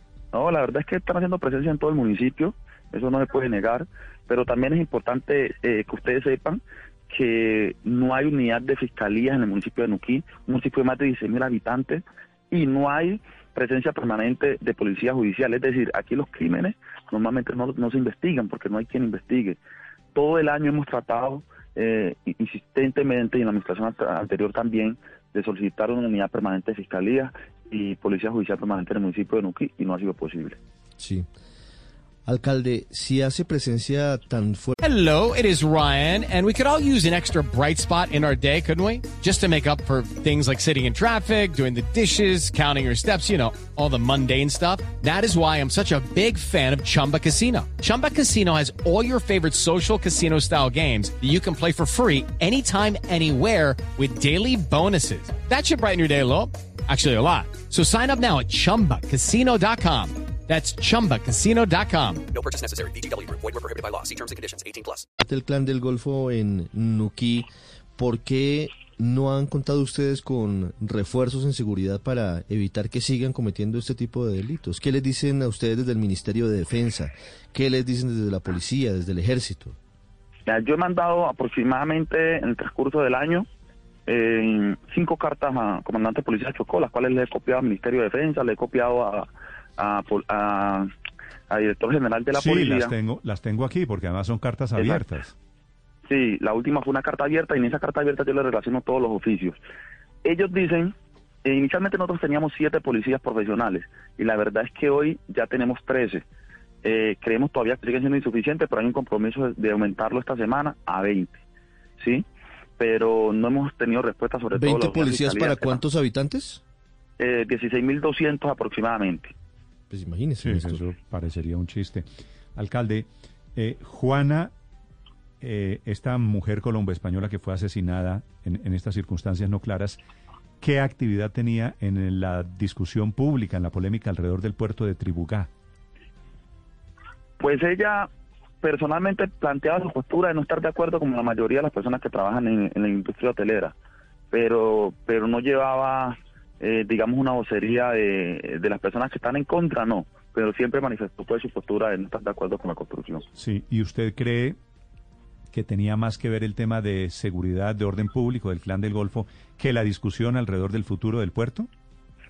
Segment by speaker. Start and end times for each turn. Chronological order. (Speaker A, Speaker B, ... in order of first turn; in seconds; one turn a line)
Speaker A: 0.3-19.6
Speaker A: 20.1-30.6
Speaker B: 31.0-31.3
Speaker B: 32.2-34.8
Speaker C: 34.8-62.2
Speaker D: 62.3-65.0
Speaker B: 65.2-79.8
Speaker A: 80.5-83.5
Speaker A: 84.1-90.9
Speaker A: 91.5-92.9
Speaker E: 92.3-95.3
Speaker A: 94.8-95.0
Speaker A: 96.1-99.6
Speaker A: 100.2-106.2
Speaker A: 106.8-111.4
Speaker A: 112.0-112.2
Speaker A: 112.8-115.8
Speaker B: 114.5-116.6
Speaker A: 117.2-119.3
Speaker B: 119.9-120.8
Speaker E: 120.4-122.0
Speaker E: 122.5-124.5
Speaker E: 125.4-130.0
Speaker E: 130.6-135.5
Speaker A: 137.4-138.1
Speaker A: 138.6-143.7
Speaker A: 144.3-153.2
Speaker E: 153.4-154.6
Speaker E: 155.5-161.7